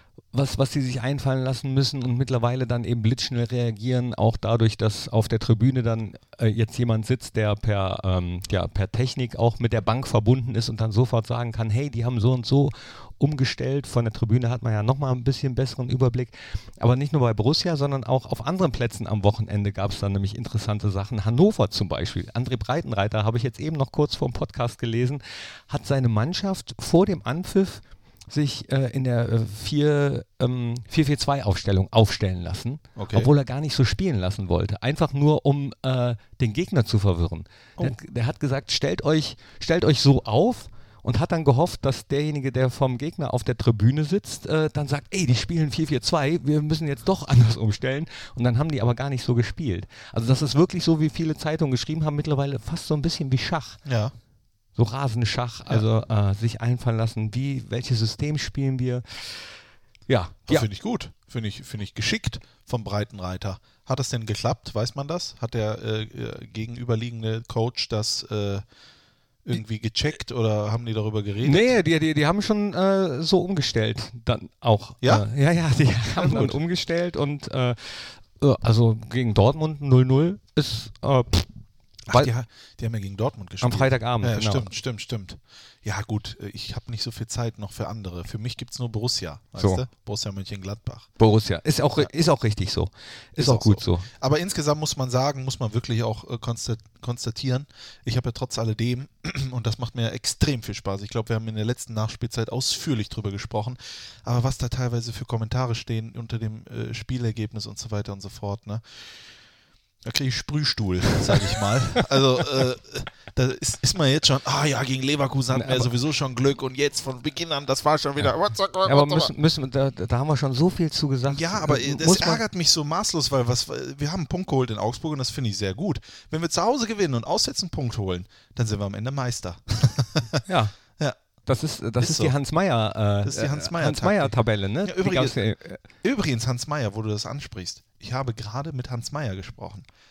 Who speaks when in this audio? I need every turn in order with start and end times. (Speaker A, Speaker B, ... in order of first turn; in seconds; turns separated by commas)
Speaker A: 0.3-53.8, Speaker B: 33.0-33.3, Speaker B: 53.8-54.1, Speaker A: 54.8-59.6, Speaker A: 60.1-60.7, Speaker B: 60.5-68.6, Speaker B: 69.4-71.8, Speaker A: 71.4-81.5, Speaker B: 76.1-76.6, Speaker B: 82.1-91.2, Speaker A: 83.6-84.7, Speaker A: 89.6-89.8, Speaker A: 91.2-94.1, Speaker B: 93.4-109.0, Speaker B: 110.0-119.3, Speaker A: 115.5-115.9, Speaker A: 118.8-122.4, Speaker B: 121.3-130.4, Speaker A: 130.5-130.8, Speaker A: 131.4-135.8, Speaker B: 132.0-132.3, Speaker B: 133.2-135.4, Speaker B: 136.0-139.9